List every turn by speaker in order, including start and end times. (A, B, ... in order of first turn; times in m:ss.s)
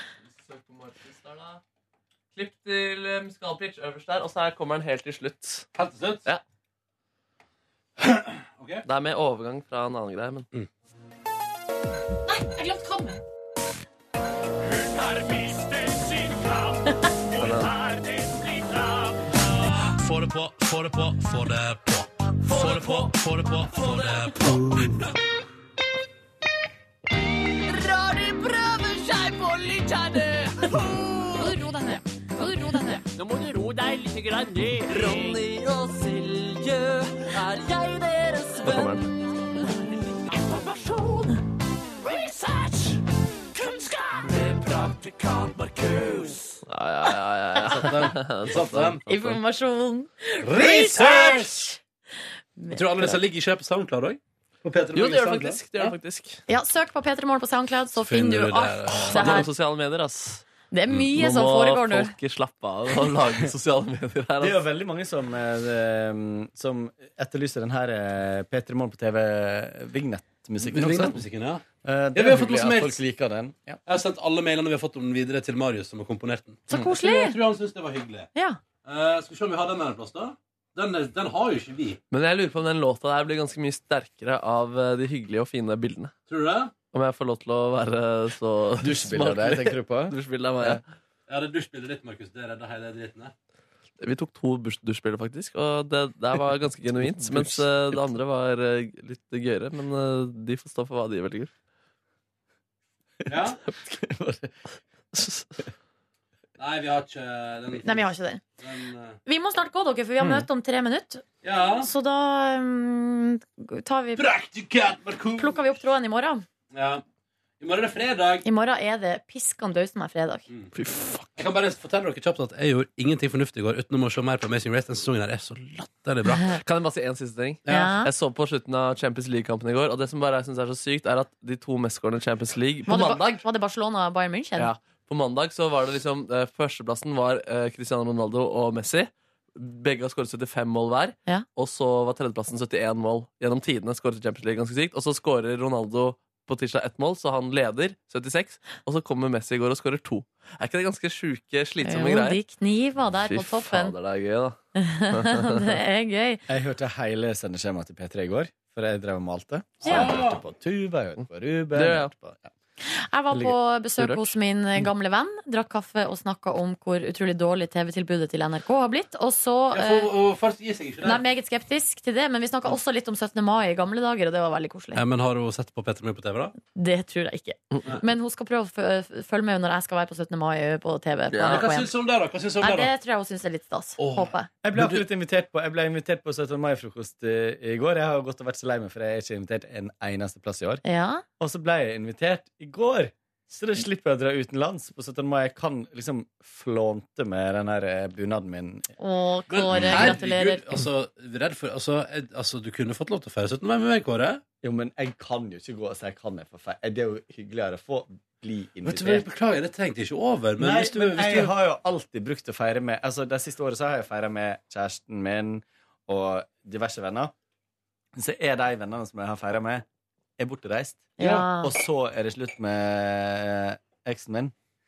0:00.4-0:01.6 A
0:02.4-0:05.7 A
0:05.8-0:06.2 B
0:08.0-0:08.8 B
0:08.8-0:10.5 A
0:12.3-0:13.2 C
0:14.6-0:20.2 D
0:17.4-0:17.8 A
0:20.1-0:24.6 B
0:22.4-0:24.6 D
0:27.2-0:41.4 D
0:31.4-0:33.0 C
0:38.6-0:39.1 A
0:42.0-0:43.0 D
0:43.6-0:46.6 D
0:46.7-0:49.0 A
0:47.7-0:49.4 B
0:49.1-0:51.8 C
0:50.4-0:51.6 B
0:52.6-0:53.2 C
0:52.7-0:56.0 B
0:54.9-0:56.4 A
0:56.5-0:59.5 C
0:58.0-0:59.5 B
0:59.1-1:00.5 A
1:00.7-1:02.1 C
1:01.2-1:04.6 A
1:04.4-1:11.2 E
1:10.7-1:11.6 B
1:11.8-1:13.8 E
1:12.2-1:13.0 B
1:13.9-1:18.3 B
1:16.7-1:17.4 C
1:18.8-1:22.0 B
1:22.1-1:26.1 A
1:26.3-1:26.7 B
1:26.9-1:30.8 A
1:28.8-1:30.8 E
1:31.3-1:33.3 B
1:34.0-1:41.5 A
1:37.2-1:38.1 E
1:43.3-1:44.6 E
1:43.3-1:43.6 B
1:45.2-1:45.5 A
1:46.6-1:48.1 B
1:47.8-1:48.4 C
1:48.6-1:49.2 B
1:49.3-1:51.2 C
1:50.2-1:50.5 E
1:51.4-1:51.9 B
1:51.8-1:54.3 C
1:54.2-1:55.6 B
1:55.4-1:56.4 C
1:56.7-1:57.0 B
1:57.6-1:58.4 B
1:58.4-2:00.5 C
2:00.8-2:01.4 A
2:01.4-2:06.4 B
2:06.6-2:13.4 A
2:07.7-2:08.0 B
2:07.7-2:08.1 C
2:12.9-2:14.7 C
2:14.6-2:32.4 A
2:31.8-2:34.0 C
2:33.3-2:34.6 A
2:34.8-2:36.4 C
2:35.1-2:35.8 A
2:36.5-2:42.5 E
2:39.8-2:40.1 C
2:39.9-2:40.4 B
2:41.7-2:42.1 A
2:42.8-2:50.1 C
2:43.3-2:43.6 E
2:44.0-2:44.4 A
2:49.7-2:51.2 B
2:51.0-2:55.0 C
2:54.9-2:56.6 B
2:56.8-3:01.9 C
3:01.3-3:01.6 A
3:01.4-3:02.9 B
3:02.6-3:04.5 C
3:04.0-3:04.3 B
3:04.6-3:10.8 E
3:10.8-3:11.2 C
3:11.4-3:18.9 E
3:19.0-3:20.7 C
3:19.5-3:24.4 B
3:19.8-3:20.2 E
3:24.6-3:29.3 E
3:28.9-3:31.5 B
3:30.6-3:37.3 E
3:38.2-3:39.8 E
3:40.4-3:44.5 E
3:41.2-3:41.7 C